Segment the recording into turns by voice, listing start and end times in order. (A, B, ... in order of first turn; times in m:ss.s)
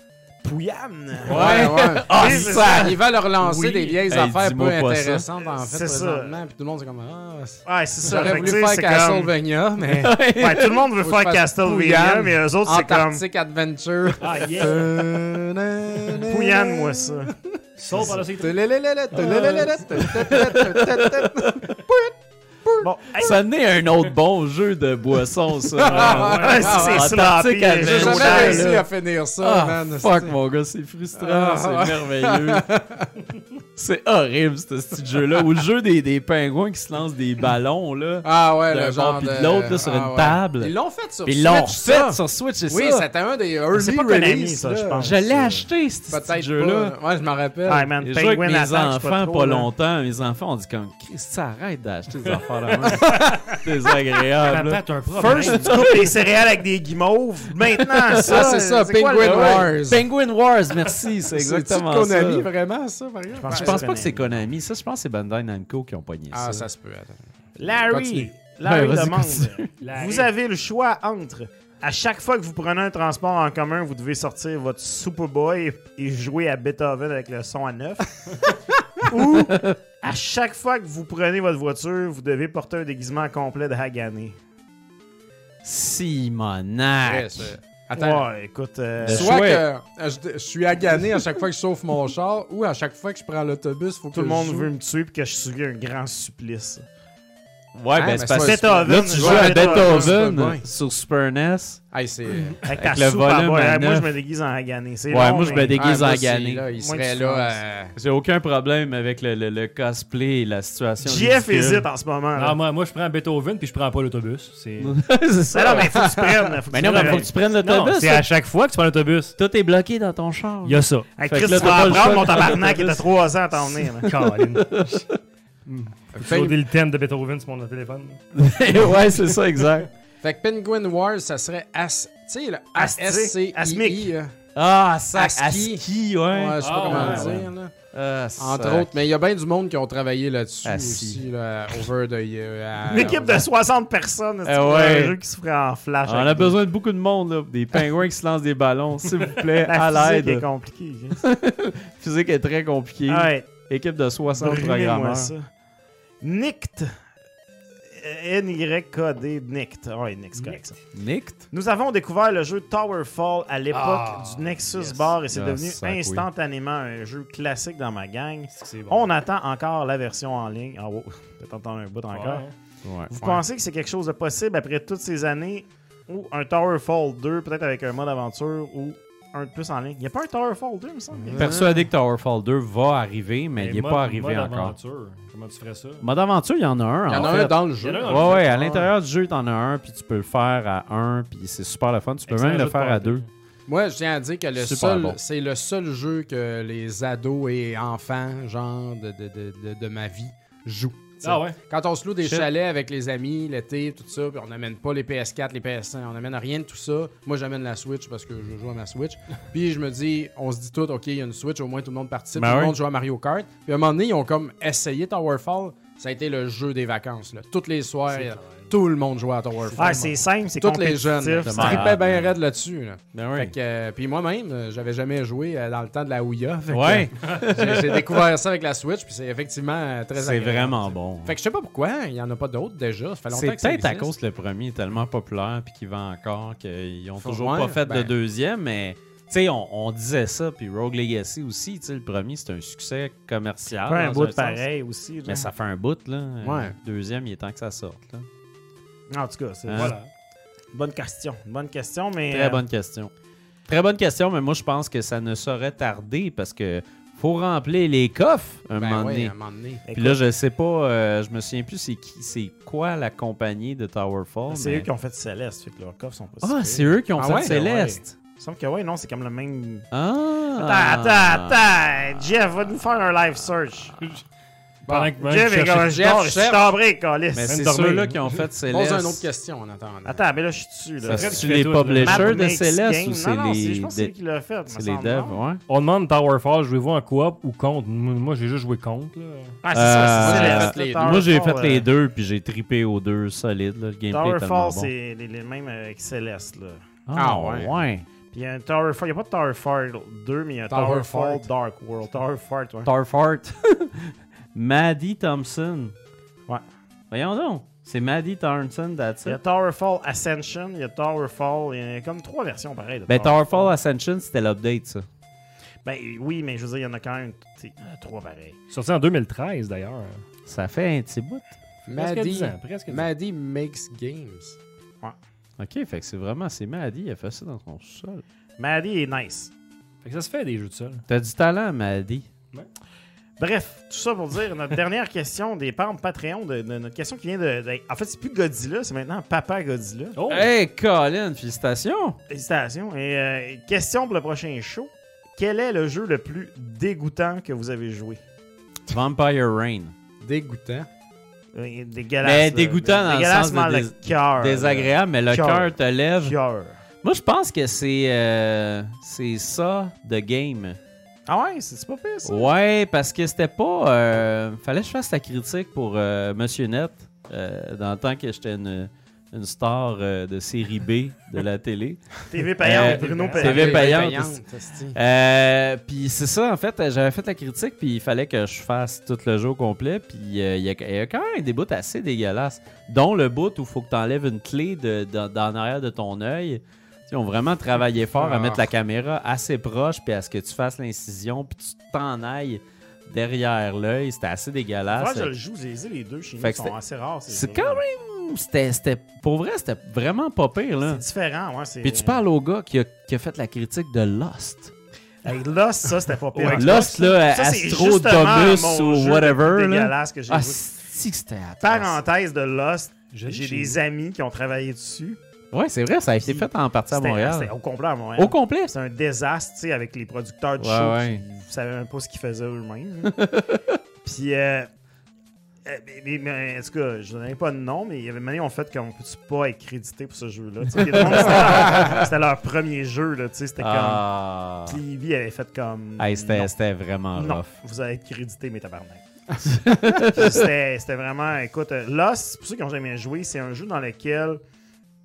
0:00.4-0:03.0 A
0:01.3-0:05.3 B
0:01.3-0:10.2 C
0:05.5-0:06.3 A
0:07.6-0:09.3 A
0:09.8-0:10.9 B
0:10.4-0:13.2 A
0:11.0-0:22.1 C
0:14.2-0:15.0 D
0:16.3-0:17.3 A
0:17.8-0:18.6 D
0:17.9-0:18.2 A
0:19.1-0:21.8 B
0:22.8-0:23.4 A
0:23.2-0:28.9 B
0:25.7-0:27.1 C
0:26.2-0:28.7 A
0:27.8-0:30.3 C
0:29.4-0:32.7 B
0:31.2-0:33.1 C
0:33.8-0:40.7 B
0:38.2-0:45.1 C
0:41.2-0:43.1 B
0:43.7-0:45.6 A
0:45.0-0:46.9 B
0:46.1-0:47.9 C
0:47.6-0:49.7 A
0:48.0-0:56.1 B
0:52.8-0:53.6 C
0:54.4-0:55.8 D
0:55.1-0:59.7 A
0:57.8-0:58.7 B
0:58.2-1:00.0 C
0:59.2-1:02.5 B
1:01.3-1:03.8 C
1:03.4-1:04.4 A
1:03.5-1:06.6 B
1:06.3-1:07.2 C
1:07.6-1:24.4 A
1:07.8-1:08.3 C
1:08.6-1:09.7 B
1:09.8-1:10.3 D
1:19.3-1:19.8 B
1:25.6-1:27.5 B
1:27.0-1:28.2 C
1:27.9-1:29.4 A
1:29.0-1:29.6 B
1:29.0-1:34.7 C
1:34.1-1:36.8 A
1:37.7-1:41.8 B
1:37.9-1:40.6 C
1:38.3-1:40.2 A
1:41.9-1:42.6 C
1:42.6-1:44.0 B
1:42.6-1:45.8 A
1:45.1-1:46.6 B
1:45.7-1:47.9 C
1:46.8-1:47.6 A
1:48.0-1:51.8 B
1:51.0-1:52.6 A
1:52.4-1:55.0 D
1:54.8-1:55.9 B
1:55.5-1:57.3 A
1:55.9-1:56.5 C
1:56.7-1:58.2 B
1:56.9-1:59.4 D
1:59.4-2:03.0 B
2:00.6-2:01.1 D
2:01.2-2:04.1 A
2:03.6-2:05.2 B
2:04.0-2:05.0 D
2:05.6-2:08.2 D
2:06.1-2:06.6 C
2:08.3-2:09.9 B
2:10.2-2:14.3 C
2:12.7-2:14.1 A
2:14.5-2:19.0 B
2:15.1-2:17.7 C
2:16.6-2:17.4 D
2:18.4-2:23.4 C
2:20.6-2:21.2 B
2:22.9-2:26.6 A
2:24.4-2:25.2 B
2:26.0-2:30.4 B
2:29.6-2:31.2 A
2:31.2-2:35.3 B
2:33.1-2:33.5 A
2:34.3-2:35.5 A
2:36.2-2:36.9 A
2:37.9-2:40.8 A
2:40.4-2:40.6 D
2:40.9-2:41.4 B
2:41.5-2:52.4 A
2:43.7-2:45.1 D
2:45.3-2:46.3 B
2:48.6-2:49.0 D
2:52.1-2:52.5 D
2:52.8-2:53.1 B
2:53.1-3:01.6 A
3:01.2-3:01.8 C
3:01.3-3:04.7 B
3:03.6-3:06.0 D
3:06.0-3:13.2 B
3:07.1-3:08.6 C
3:07.8-3:08.8 D
3:12.3-3:13.3 D
3:13.7-3:54.1 C
3:14.5-3:15.2 B
3:21.2-3:21.6 D
3:22.2-3:22.5 B
3:32.3-3:32.7 B
3:38.1-3:38.7 D
3:39.7-3:40.0 D
3:39.8-3:41.9 A
3:41.4-3:42.3 B
3:43.1-3:43.5 B
3:46.7-3:48.2 B
3:50.1-3:51.3 B
3:53.3-4:04.6 B
3:57.2-3:58.1 C
4:03.8-4:05.5 A
4:05.2-4:08.3 B
4:06.4-4:06.7 C
4:09.1-4:10.0 A
4:09.7-4:09.9 B
4:09.8-4:10.1 D
4:10.7-4:12.6 A
4:12.3-4:13.1 B
4:13.7-4:19.3 B
4:18.8-4:19.8 C
4:19.9-4:20.2 A
4:19.9-4:24.9 B
4:24.5-4:29.9 A
4:26.4-4:28.2 B
4:27.2-4:27.6 C
4:29.9-4:31.6 B
4:30.6-4:34.0 A
4:34.8-4:35.1 C
4:34.9-4:36.0 D
4:35.2-4:37.6 A
4:35.8-4:36.7 C
4:37.3-4:39.2 B
4:37.5-4:38.2 D
4:38.7-4:40.2 C
4:40.0-4:45.4 A
4:41.0-4:44.1 B
4:41.1-4:42.4 D
4:44.7-4:45.6 B
4:45.7-4:49.6 D
4:49.6-4:51.8 A
4:49.7-4:54.9 B
4:50.1-4:51.2 C
4:54.1-4:56.8 A
4:57.1-4:58.1 B
4:57.1-4:57.7 C
4:58.3-5:02.9 A
5:00.7-5:01.5 C
5:02.8-5:05.9 B
5:07.1-5:09.4 B
5:09.2-5:13.7 A
5:13.1-5:15.0 B
5:15.8-5:18.6 A
5:18.7-5:20.2 D
5:20.4-5:21.4 B
5:21.9-5:24.6 C
5:22.0-5:23.1 D
5:25.6-5:28.2 B
5:28.6-5:29.5 A
5:30.0-5:31.0 D
5:31.1-5:32.3 B
5:33.4-5:40.2 A
5:40.1-5:40.5 D
5:40.3-5:42.2 B
5:42.3-5:48.2 A
5:48.9-5:49.9 B
5:50.2-5:50.9 C
5:51.5-5:56.8 A
5:52.2-5:56.3 B
5:57.0-6:00.8 B
6:01.3-6:02.5 A
6:02.2-6:14.4 B
6:12.3-6:14.0 A
6:12.6-6:13.6 D
6:13.3-6:15.0 C
6:14.9-6:35.3 B
6:28.1-6:28.7 C
6:34.9-6:37.8 A
6:36.4-6:36.7 B
6:37.3-6:41.0 B
6:40.8-6:42.2 A
6:41.8-6:44.7 B
6:45.2-6:50.6 A
6:46.3-6:47.0 D
6:46.5-6:52.0 B
6:51.6-6:55.2 A
6:53.1-6:53.8 D
6:55.5-6:57.5 B
6:56.2-7:03.2 A
6:58.2-6:58.7 B
7:00.6-7:01.2 B
7:03.0-7:03.8 B
7:04.0-7:04.7 A
7:05.6-7:14.0 A
7:13.6-7:14.8 B
7:14.6-7:16.5 A
7:16.0-7:17.5 B
7:17.1-7:24.4 A
7:19.4-7:20.5 B